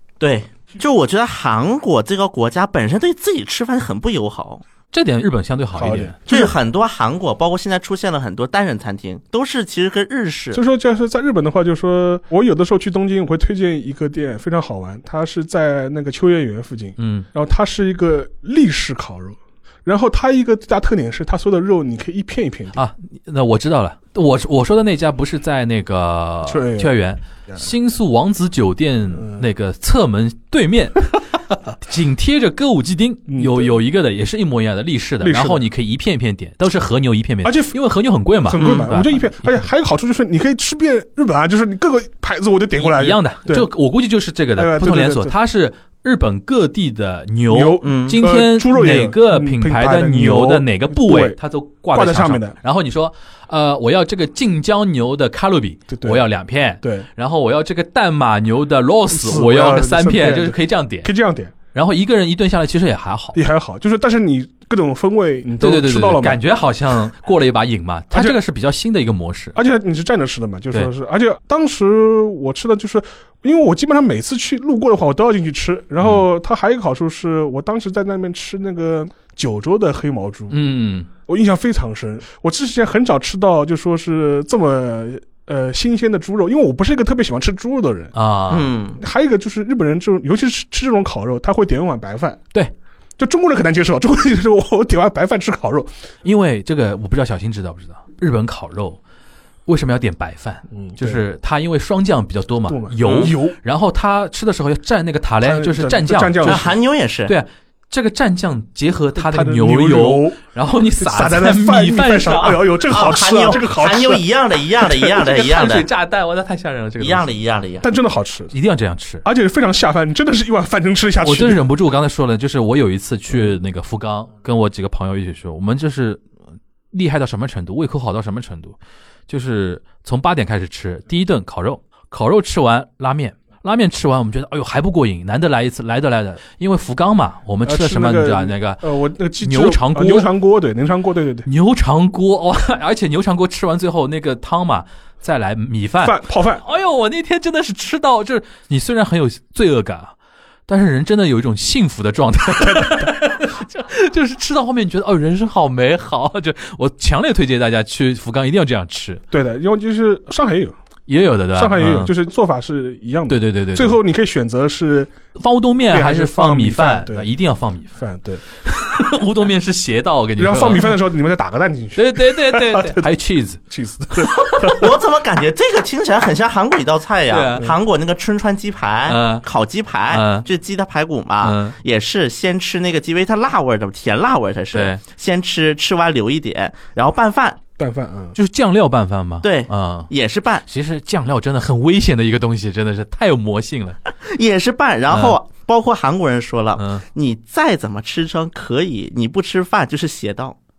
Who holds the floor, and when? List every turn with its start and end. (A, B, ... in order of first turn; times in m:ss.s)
0:00.2-0:04.6 A
0:04.9-0:06.2 B
0:05.8-0:06.6 C
0:06.3-0:10.6 A
0:10.5-0:22.8 C
0:17.0-0:17.3 B
0:22.7-0:39.7 B
0:26.4-0:27.0 C
0:29.2-0:29.4 C
0:33.3-0:33.7 C
0:35.2-0:35.6 C
0:37.4-0:37.8 C
0:38.4-0:43.7 C
0:42.8-1:01.1 B
0:44.6-0:45.4 C
0:47.5-0:51.4 C
0:47.8-0:48.2 A
0:51.9-0:52.6 C
0:55.9-0:56.2 C
0:56.8-0:57.1 C
0:59.1-1:01.6 C
1:01.7-1:03.4 B
1:03.3-1:06.4 C
1:05.6-1:09.6 B
1:08.1-1:08.4 C
1:09.6-1:20.6 C
1:20.5-1:21.1 B
1:21.3-1:28.1 C
1:28.1-1:28.7 B
1:28.5-1:29.0 A
1:29.0-1:32.4 C
1:33.2-1:35.9 C
1:36.2-1:39.0 B
1:39.7-1:46.7 B
1:40.7-1:41.2 C
1:42.7-1:43.6 C
1:45.4-1:46.7 C
1:46.4-1:47.3 A
1:47.3-1:52.6 B
1:49.2-1:50.4 C
1:51.0-1:54.2 C
1:52.9-1:55.9 A
1:54.8-1:55.1 C
1:55.2-1:57.3 B
1:57.0-1:57.9 A
1:57.8-1:58.5 C
1:58.5-1:59.2 B
1:59.2-2:01.7 C
2:01.2-2:06.2 B
2:06.9-2:08.8 B
2:09.3-2:18.8 B
2:17.6-2:21.5 C
2:19.4-2:20.3 B
2:21.4-2:30.1 B
2:26.0-2:26.6 C
2:30.7-2:39.2 B
2:39.3-2:40.8 C
2:41.1-2:42.1 B
2:41.5-2:45.1 C
2:43.3-2:44.0 B
2:45.4-2:48.0 B
2:45.9-2:47.3 C
2:48.0-2:48.4 C
2:48.6-2:51.0 B
2:50.4-2:53.1 C
2:52.0-2:53.6 B
2:53.7-2:54.9 C
2:54.2-2:54.7 B
2:54.6-3:07.6 A
2:57.3-2:57.7 B
2:59.1-2:59.4 B
3:00.1-3:00.5 B
3:01.4-3:01.8 B
3:04.7-3:05.0 B
3:07.8-3:08.4 C
3:08.4-3:10.1 B
3:09.4-3:10.6 A
3:10.7-3:14.0 B
3:14.2-3:20.6 A
3:15.1-3:15.4 B
3:16.8-3:17.0 B